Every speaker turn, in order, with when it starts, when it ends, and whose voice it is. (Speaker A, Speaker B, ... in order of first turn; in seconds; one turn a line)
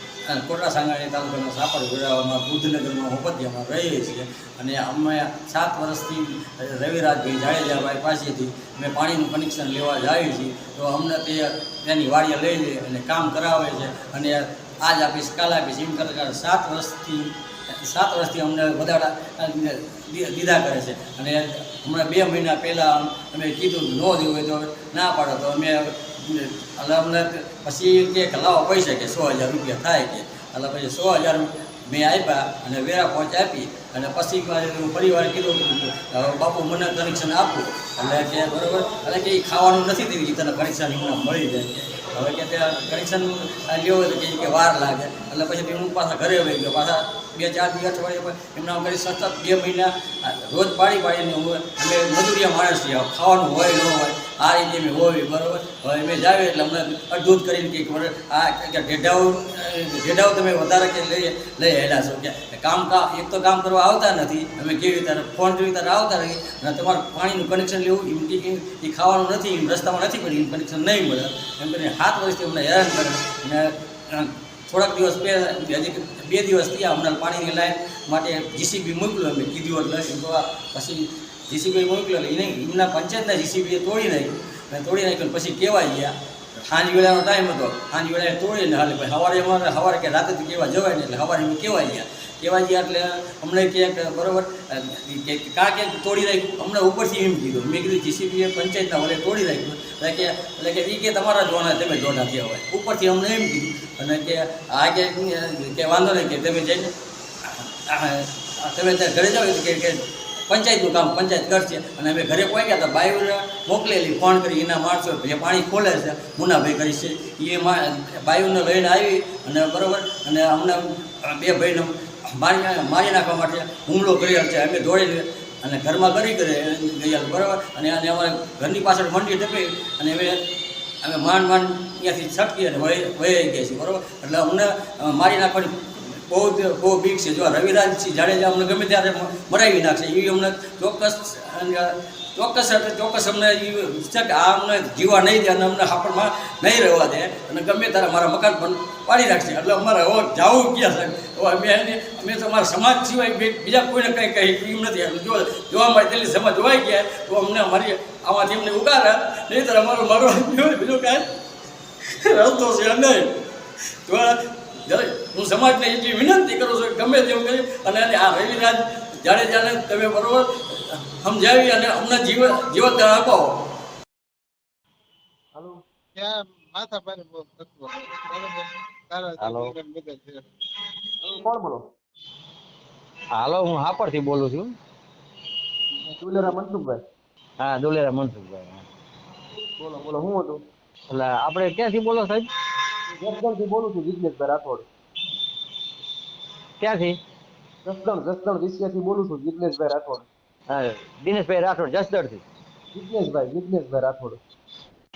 Speaker A: 0.3-86.1
Speaker A: 86.7-106.9
Speaker A: 107.4-130.4
Speaker A: 131.0-161.2
Speaker A: 162.2-163.3
Speaker A: 164.1-173.5
Speaker B: 175.6-175.8
Speaker C: 176.2-180.5
Speaker D: 179.4-179.8
Speaker B: 181.2-181.8
Speaker D: 183.3-184.7
Speaker B: 186.0-187.0
Speaker D: 187.6-188.8
Speaker B: 189.8-190.6
Speaker D: 191.1-192.5
Speaker B: 193.1-194.9
Speaker D: 196.8-197.2
Speaker B: 197.8-200.3
Speaker D: 200.7-202.4
Speaker B: 202.9-204.4